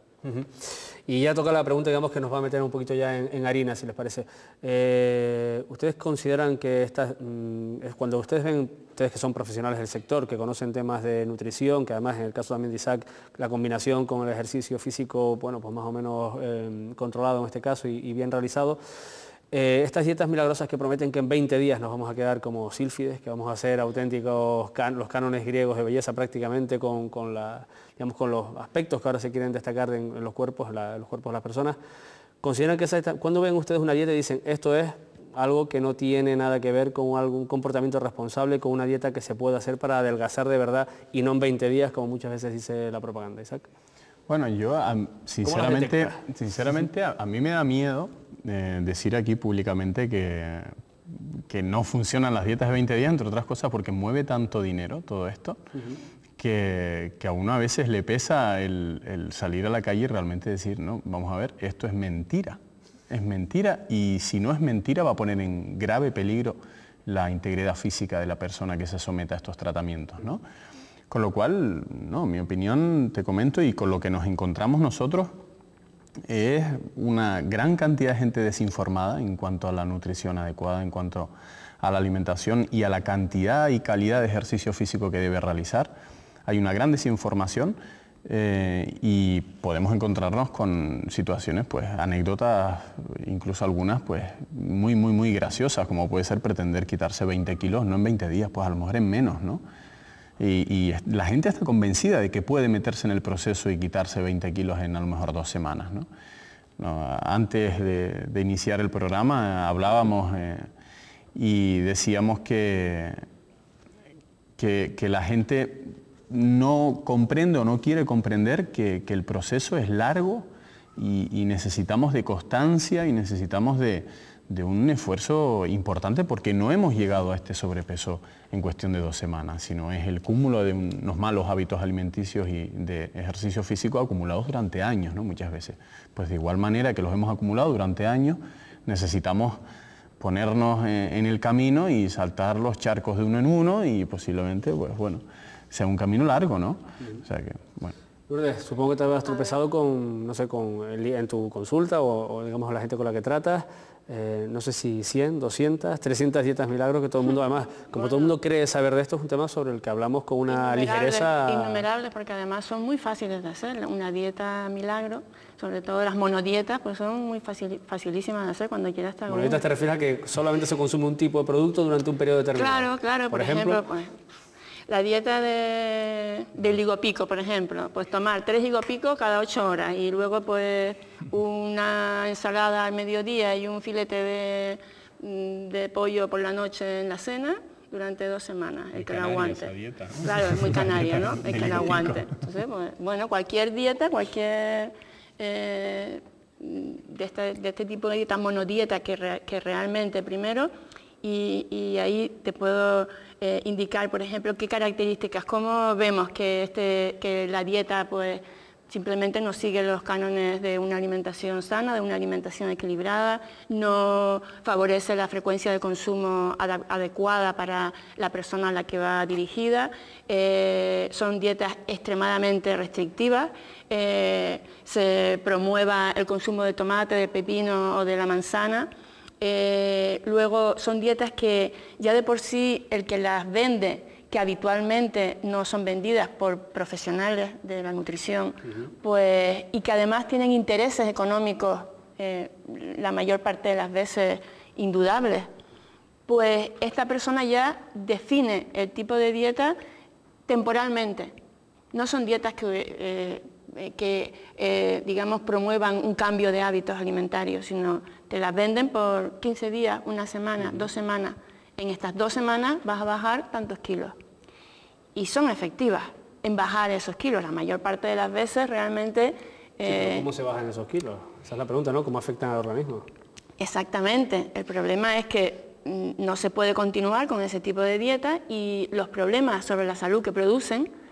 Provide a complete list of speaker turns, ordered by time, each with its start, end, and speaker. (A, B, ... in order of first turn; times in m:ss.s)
0:00.2-0:18.8 A
0:19.5-0:31.8 A
0:32.4-0:43.7 A
0:44.3-0:55.6 B
0:45.4-0:46.2 A
0:56.4-1:02.6 B
1:03.1-1:10.4 B
1:11.1-1:15.4 B
1:16.3-1:25.9 B
1:26.5-1:39.6 B
1:40.4-1:46.1 B
1:46.8-1:50.7 B
1:51.4-1:53.2 B
1:54.6-2:19.6 B
2:20.2-2:28.0 B
2:28.3-2:41.8 A
2:38.0-2:38.3 C
2:40.5-2:49.6 C
2:49.3-2:53.8 A
2:52.6-2:54.2 C
2:54.9-3:20.7 C
3:08.9-3:12.3 B
3:21.2-3:48.9 C
3:49.4-4:05.5 C
4:06.3-4:09.8 C
4:10.5-4:11.4 C
4:11.9-4:24.1 C
4:25.1-4:30.2 C
4:29.8-4:33.1 A
4:33.6-4:40.9 C